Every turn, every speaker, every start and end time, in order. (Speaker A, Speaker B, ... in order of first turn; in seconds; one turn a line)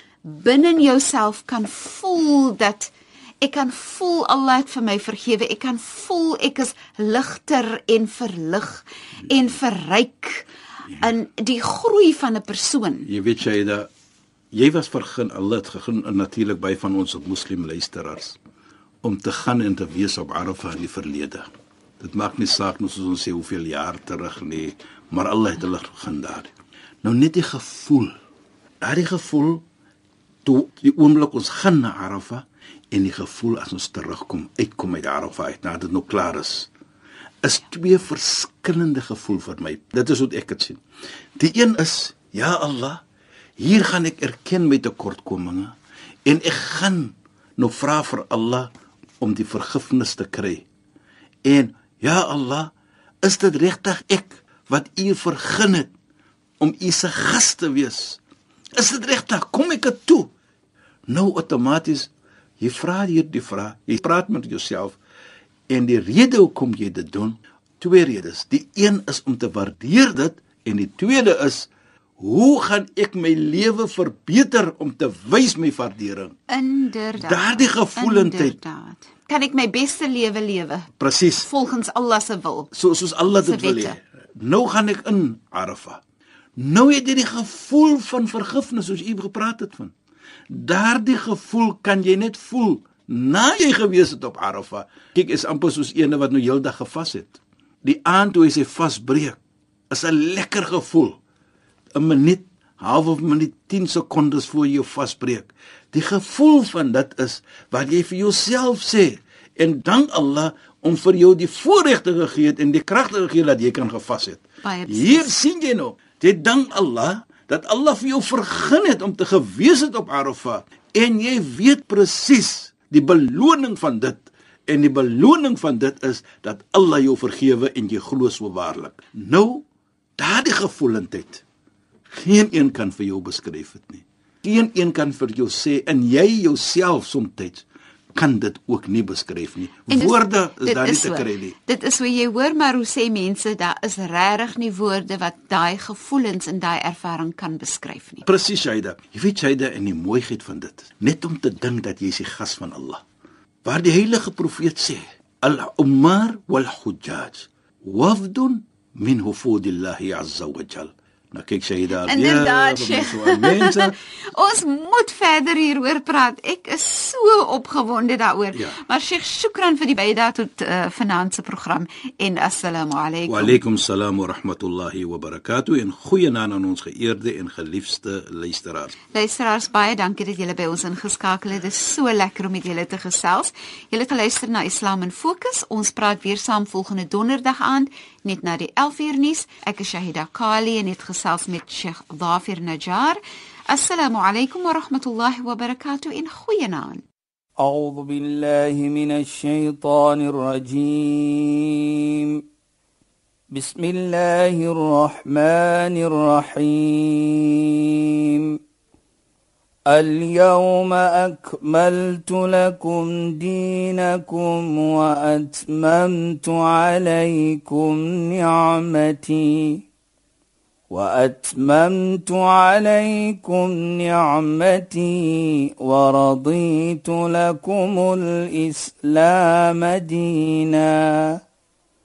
Speaker A: 0.2-10.5
Speaker A: 11.0-13.1
Speaker B: 13.1-13.9
Speaker B: 14.5-18.4
Speaker B: 19.0-21.4
Speaker B: 22.0-26.5
Speaker B: 27.0-28.1
Speaker B: 28.8-29.6
Speaker B: 30.4-36.7
Speaker B: 37.4-40.8
Speaker B: 41.4-43.0
Speaker B: 43.6-45.7
Speaker B: 46.2-48.7
Speaker B: 49.2-50.6
Speaker B: 51.4-55.9
Speaker B: 56.6-58.2
Speaker B: 58.8-60.3
Speaker B: 61.1-65.0
Speaker B: 65.7-76.3
Speaker A: 76.5-80.9
Speaker B: 77.2-78.6
Speaker B: 81.0-81.5
Speaker A: 81.4-82.7
Speaker B: 82.7-86.0
Speaker A: 83.4-84.0
Speaker B: 86.6-89.9
Speaker B: 90.5-99.4
Speaker B: 99.9-101.2
Speaker B: 101.9-129.6
Speaker A: 114.6-115.3
Speaker B: 130.2-131.4
Speaker B: 132.1-141.5
Speaker A: 139.9-148.2
Speaker B: 148.2-153.0
Speaker B: 153.6-163.9
Speaker A: 162.0-173.6
Speaker B: 168.5-168.8
Speaker B: 173.3-178.9
Speaker A: 179.1-193.2
Speaker A: 193.7-197.0
Speaker C: 197.6-202.4
Speaker C: 203.5-208.6
Speaker C: 209.9-219.8
Speaker C: 220.9-231.4